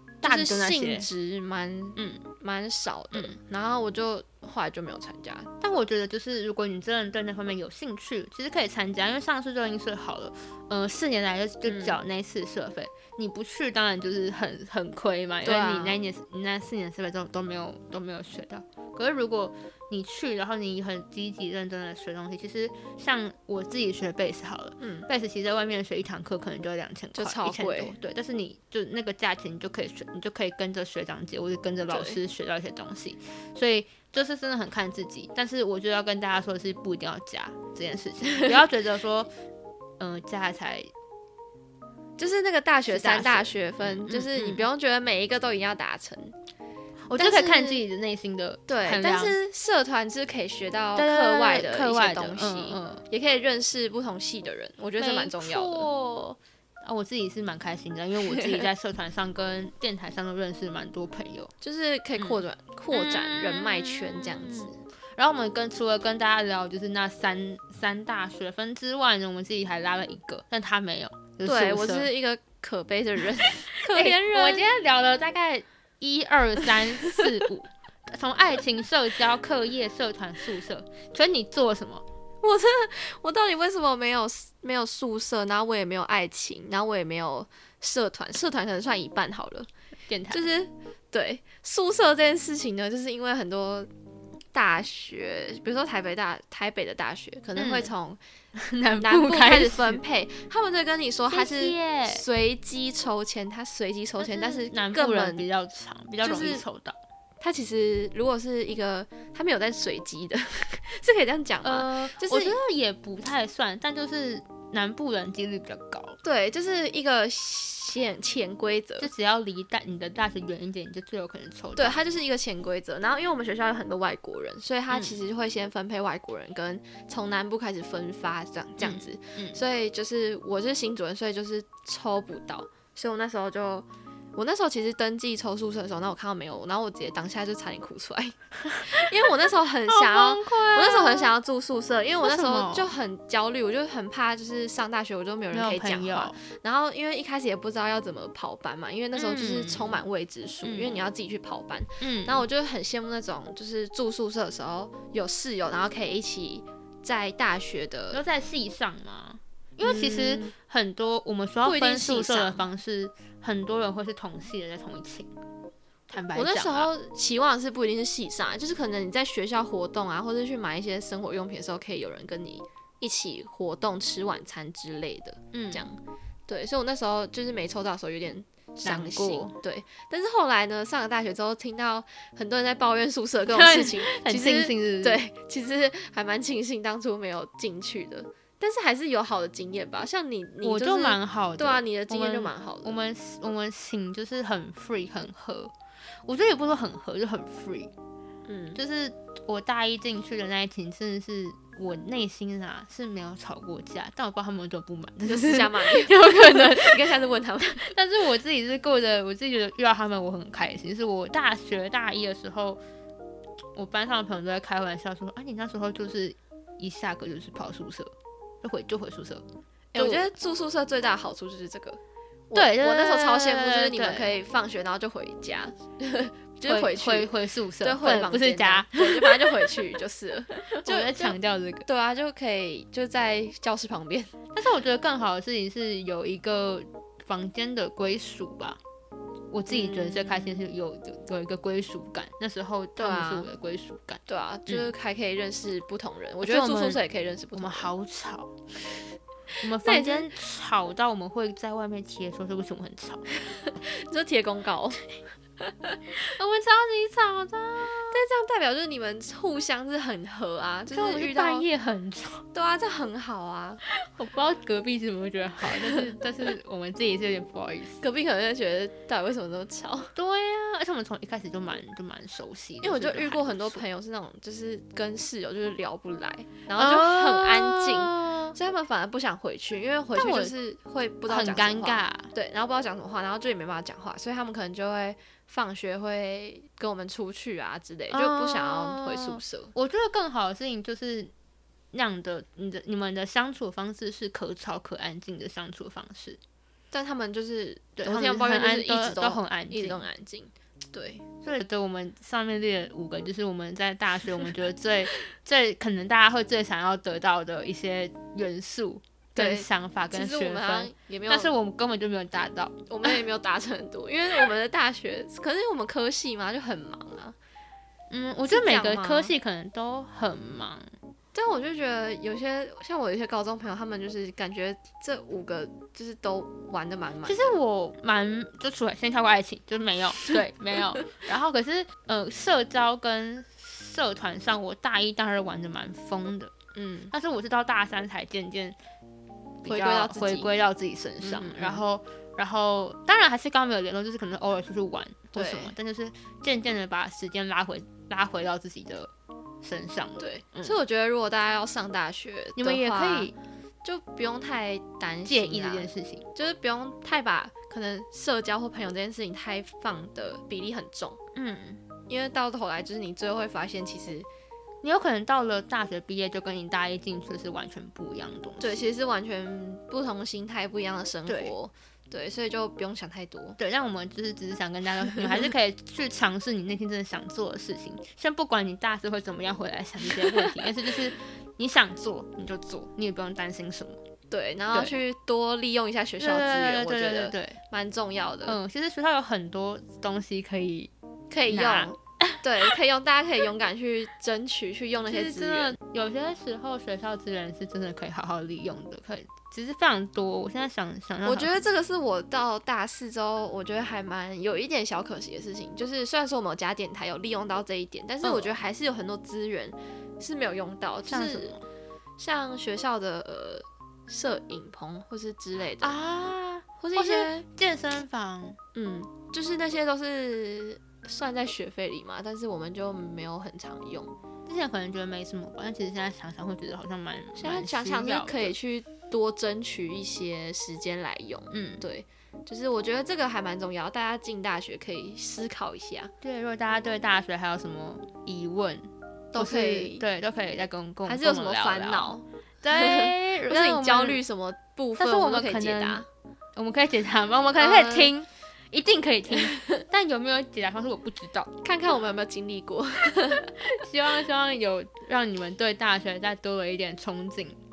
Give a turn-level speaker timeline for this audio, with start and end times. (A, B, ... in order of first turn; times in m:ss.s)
0:00.2-0:05.5 A
0:00.2-0:01.1 B
0:02.0-0:02.2 B
0:05.6-0:39.3 B
0:11.6-0:12.0 A
0:15.4-0:16.0 A
0:24.8-0:25.1 A
0:27.2-0:28.0 A
0:31.9-0:32.2 A
0:38.3-0:38.6 A
0:40.0-0:40.9 B
0:42.2-0:46.4 A
0:42.9-0:44.7 B
0:47.1-0:49.4 B
0:47.2-0:47.8 A
0:48.7-0:55.9 A
0:51.0-0:53.0 B
0:55.0-1:01.5 B
0:58.2-0:58.7 A
1:01.6-1:04.7 A
1:02.2-1:12.1 B
1:11.4-1:14.7 A
1:13.8-1:22.0 B
1:22.4-1:29.7 A
1:30.1-1:30.4 B
1:30.3-1:33.9 A
1:34.5-1:38.2 A
1:37.6-1:37.9 B
1:38.6-1:40.0 B
1:39.0-1:45.5 A
1:41.3-1:42.2 B
1:44.2-1:47.0 B
1:46.2-1:46.6 A
1:47.4-1:52.6 A
1:51.6-1:56.2 B
1:56.2-1:59.1 A
1:59.0-2:02.0 B
2:01.8-2:38.2 A
2:04.9-2:05.2 B
2:08.8-2:09.6 B
2:19.9-2:21.3 B
2:22.2-2:22.9 B
2:25.5-2:26.4 B
2:29.2-2:30.0 B
2:30.6-2:31.0 B
2:32.0-2:32.5 B
2:38.1-2:45.3 B
2:39.8-2:40.5 A
2:41.6-2:42.6 A
2:46.1-2:46.9 B
2:46.3-3:13.0 A
2:55.5-2:55.9 B
2:58.8-2:59.6 B
3:03.5-3:05.2 B
3:10.6-3:15.7 B
3:16.2-3:17.9 B
3:18.5-3:18.8 A
3:18.8-3:27.2 B
3:25.3-3:28.0 A
3:27.7-3:32.8 B
3:33.8-3:39.4 B
3:39.9-3:54.3 A
3:40.0-3:40.3 B
3:42.5-3:44.4 B
3:46.7-3:49.8 B
3:50.8-3:51.9 B
3:54.5-3:58.8 B
3:59.5-4:04.9 B
3:59.7-4:00.6 A
4:03.0-4:03.5 A
4:04.3-4:07.9 A
4:06.4-4:07.0 B
4:07.5-4:08.5 B
4:09.6-4:10.3 A
4:09.6-4:13.3 B
4:13.4-4:15.1 A
4:15.6-4:16.0 A
4:16.3-4:18.2 B
4:18.1-4:21.7 A
4:20.9-4:22.4 B
4:22.5-4:23.8 A
4:24.0-4:28.0 B
4:25.7-4:26.2 A
4:28.0-4:30.1 A
4:30.2-4:33.8 B
4:32.8-4:49.7 A
4:36.8-4:38.6 B
4:40.1-4:40.5 B
4:41.3-4:42.3 B
4:48.1-4:51.3 B
4:51.9-4:56.4 B
4:56.9-5:01.2 A
4:58.0-5:00.0 B
5:01.4-5:13.1 B
5:09.4-5:11.5 A
5:12.9-5:17.4 A
5:18.1-5:20.9 B
5:18.5-5:19.3 A
5:21.3-5:27.6 A
5:27.3-5:36.5 B
5:36.8-5:37.1 A
5:37.1-5:38.8 B
5:39.6-5:49.1 B
5:39.6-5:40.5 A
5:41.2-5:41.8 A
5:45.4-5:45.8 A
5:49.6-5:50.8 B
5:50.2-5:53.3 A
5:52.6-5:53.4 B
5:53.8-6:01.2 A
5:55.3-5:56.3 B
6:01.4-6:01.8 B
6:02.1-6:04.3 A
6:04.8-6:08.8 B
6:08.6-6:13.6 A
6:11.3-6:11.5 B
6:13.6-6:24.0 B
6:15.0-6:15.5 A
6:20.1-6:20.6 A
6:24.3-6:28.6 A
6:26.2-6:27.6 B
6:28.5-6:30.9 B
6:31.3-6:35.8 A
6:31.5-6:32.4 B
6:35.1-6:41.6 B
6:41.2-6:51.6 A
6:48.2-6:48.6 B
6:51.1-6:51.6 B
6:52.2-6:56.0 A
6:55.8-6:58.6 B
6:56.8-6:57.4 A
6:58.8-7:04.1 A
7:04.5-7:08.6 B
7:07.4-7:16.1 A
7:11.5-7:11.8 B
7:16.2-7:24.2 B
7:19.3-7:20.0 A
7:21.1-7:26.1 A
7:25.0-7:26.0 B
7:26.6-7:31.5 B
7:27.6-7:28.2 A
7:31.6-7:33.6 A
7:33.6-7:37.6 B